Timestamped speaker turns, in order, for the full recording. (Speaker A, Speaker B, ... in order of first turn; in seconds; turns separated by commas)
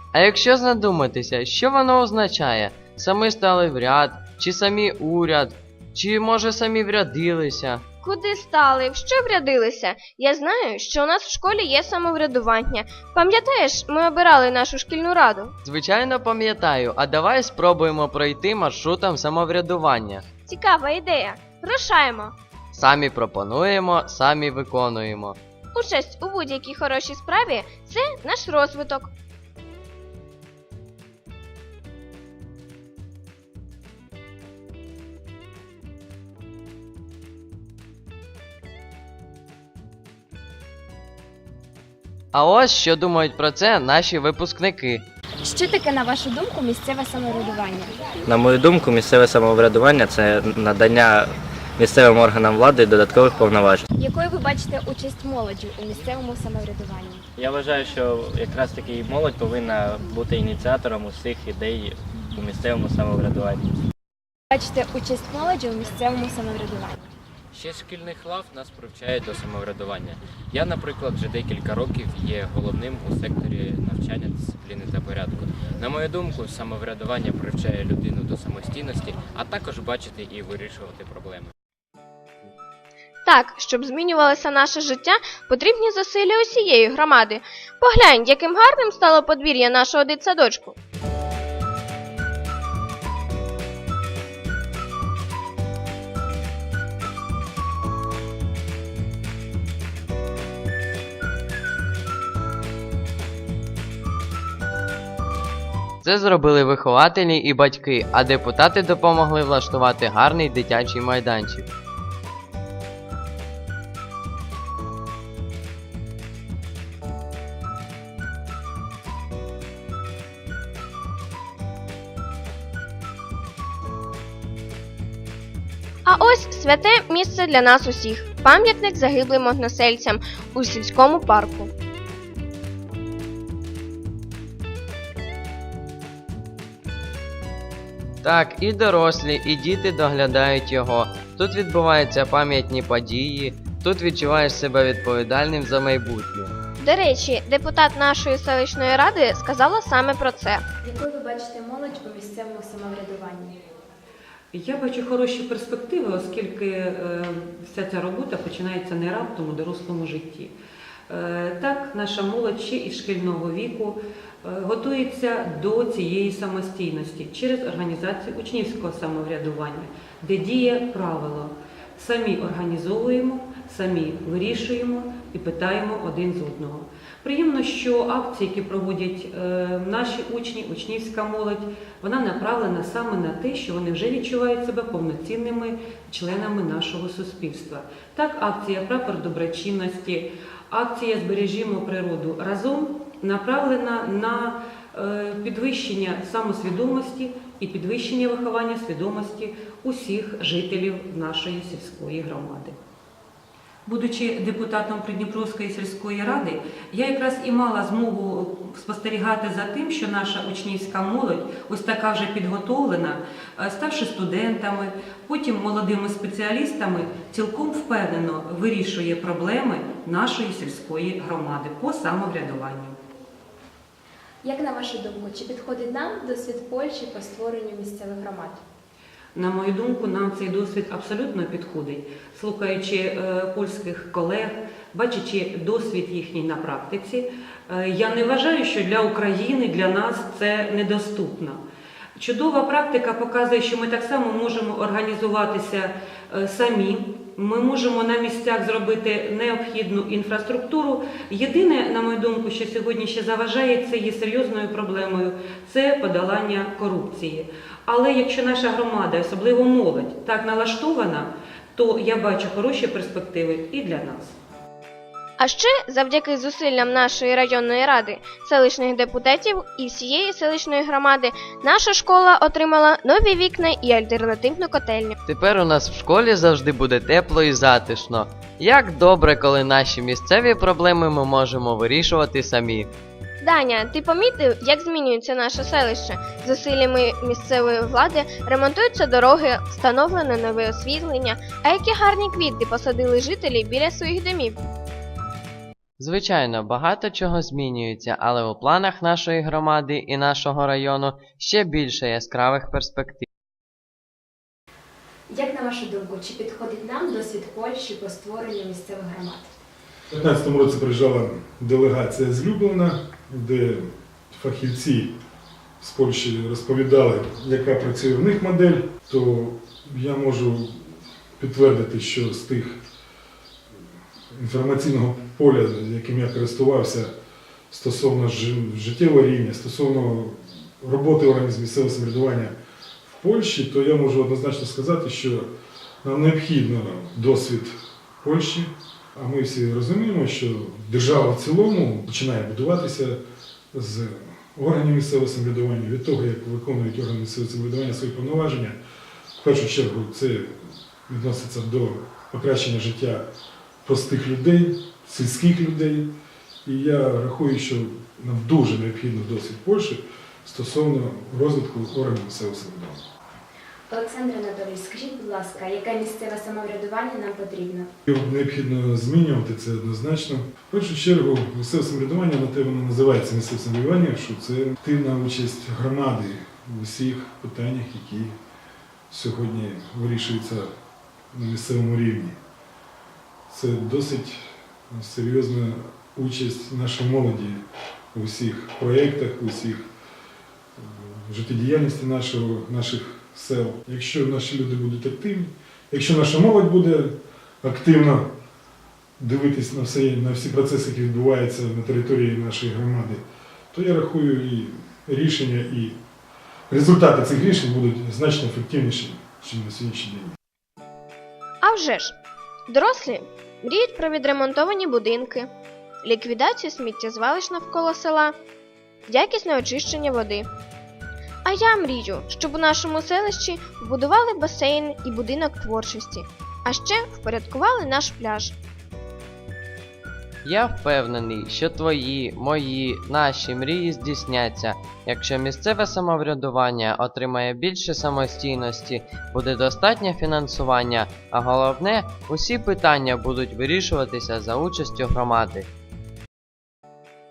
Speaker A: 0.1-7.8, Speaker B: 8.0-15.5, Speaker A: 15.6-20.2, Speaker B: 20.5-22.3, Speaker A: 22.7-25.4, Speaker B: 25.7-29.1, Speaker A: 42.3-45.1, Speaker C: 45.4-47.9, Speaker D: 48.2-53.8, Speaker C: 54.0-57.2, Speaker D: 57.4-63.8, Speaker C: 64.5-67.0, Speaker E: 67.5-81.5, Speaker B: 83.2-90.7, Speaker A: 106.0-111.7, Speaker B: 126.0-131.7, Speaker A: 138.2-146.5, Speaker B: 146.8-150.6, Speaker C: 150.8-153.6, Speaker F: 154.5-160.5, Speaker F: 161.1-202.8, Speaker F: 203.8-223.0, Speaker C: 224.4-228.6, Speaker F: 229.3-241.6, Speaker F: 242.2-264.4, Speaker B: 265.4-275.1, Speaker A: 275.3-282.9, Speaker B: 283.4-294.6, Speaker A: 296.0-303.3, Speaker C: 305.3-309.5, Speaker G: 310.1-315.1, Speaker G: 315.8-322.8, Speaker G: 324.3-327.1, Speaker G: 327.7-335.5, Speaker G: 336.0-343.2, Speaker G: 343.7-348.8, Speaker G: 349.4-350.5, Speaker G: 351.1-353.2, Speaker G: 353.8-356.1, Speaker G: 356.6-363.0, Speaker C: 363.9-367.9, Speaker G: 368.1-378.3, Speaker G: 379.1-380.7, Speaker G: 381.3-382.4, Speaker G: 383.5-387.6, Speaker G: 388.1-389.8, Speaker G: 390.8-398.3, Speaker G: 399.2-406.0, Speaker G: 406.7-410.3, Speaker B: 411.6-412.1, Speaker B: 412.7-415.5, Speaker B: 416.0-418.3, Speaker B: 419.1-420.5, Speaker B: 421.4-428.5, Speaker A: 430.4-445.7